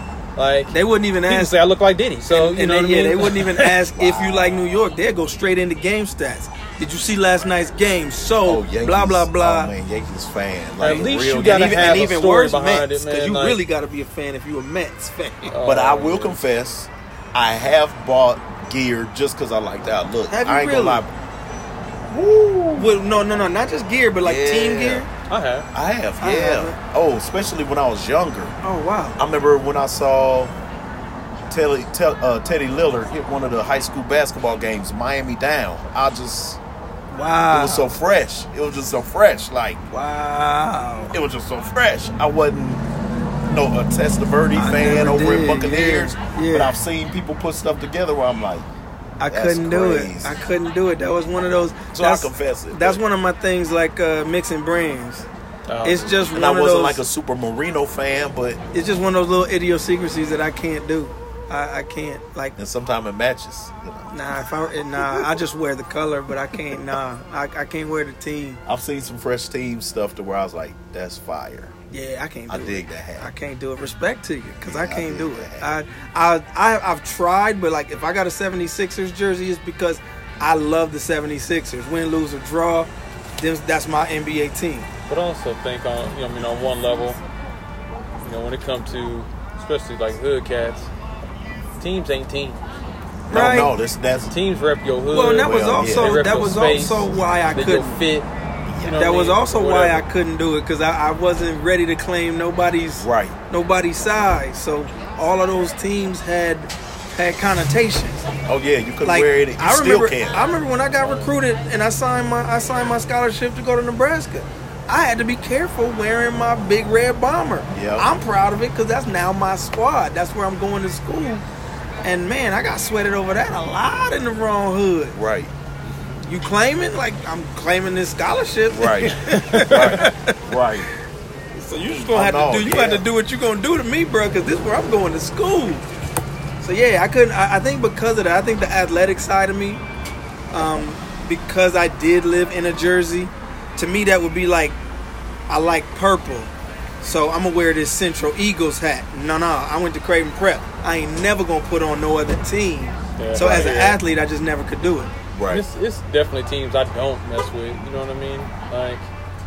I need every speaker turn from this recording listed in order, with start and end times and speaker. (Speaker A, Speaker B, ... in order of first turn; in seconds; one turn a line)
Speaker A: 0.4-0.8
Speaker B: 0.7-1.6
Speaker A: 1.3-3.9
Speaker B: 2.3-9.7
Speaker C: 4.0-4.4
Speaker C: 8.5-12.2
Speaker A: 10.8-13.6
Speaker B: 10.9-15.6
Speaker A: 15.5-16.4
Speaker C: 15.6-21.1
Speaker B: 20.3-21.1
Speaker C: 22.1-22.9
Speaker B: 22.8-25.1
Speaker C: 24.2-25.1
Speaker A: 25.3-25.7
Speaker C: 25.7-28.6
Speaker B: 26.2-26.8
Speaker B: 28.6-29.2
Speaker C: 29.2-30.5
Speaker C: 31.5-36.6
Speaker B: 37.1-38.0
Speaker C: 37.5-39.8
Speaker B: 39.9-41.2
Speaker C: 41.1-42.8
Speaker C: 43.5-48.7
Speaker B: 44.5-46.8
Speaker B: 49.2-55.3
Speaker C: 49.3-50.4
Speaker C: 51.9-53.0
Speaker A: 55.7-56.2
Speaker B: 55.8-57.0
Speaker C: 56.3-58.6
Speaker B: 58.7-62.5
Speaker C: 62.6-64.1
Speaker B: 64.1-68.6
Speaker C: 65.0-65.4
Speaker C: 68.7-71.7
Speaker B: 71.9-84.9
Speaker C: 72.5-73.3
Speaker C: 74.6-75.7
Speaker A: 85.1-87.2
Speaker A: 88.2-90.9
Speaker A: 91.8-92.6
Speaker C: 93.3-94.3
Speaker B: 93.3-93.7
Speaker A: 94.3-98.3
Speaker B: 95.1-98.0
Speaker C: 95.4-96.2
Speaker C: 98.7-99.0
Speaker A: 98.8-100.1
Speaker B: 99.0-108.2
Speaker C: 103.0-103.4
Speaker C: 108.5-110.5
Speaker B: 109.0-121.5
Speaker C: 117.7-118.1
Speaker B: 122.0-125.2
Speaker C: 125.2-125.5
Speaker B: 126.2-130.5
Speaker C: 128.7-130.9
Speaker A: 129.1-130.1
Speaker B: 131.6-135.8
Speaker C: 132.1-133.1
Speaker B: 136.6-139.8
Speaker B: 140.5-144.8
Speaker B: 145.5-155.1
Speaker A: 153.2-154.0
Speaker C: 153.4-153.9
Speaker C: 155.3-155.6
Speaker A: 155.5-159.1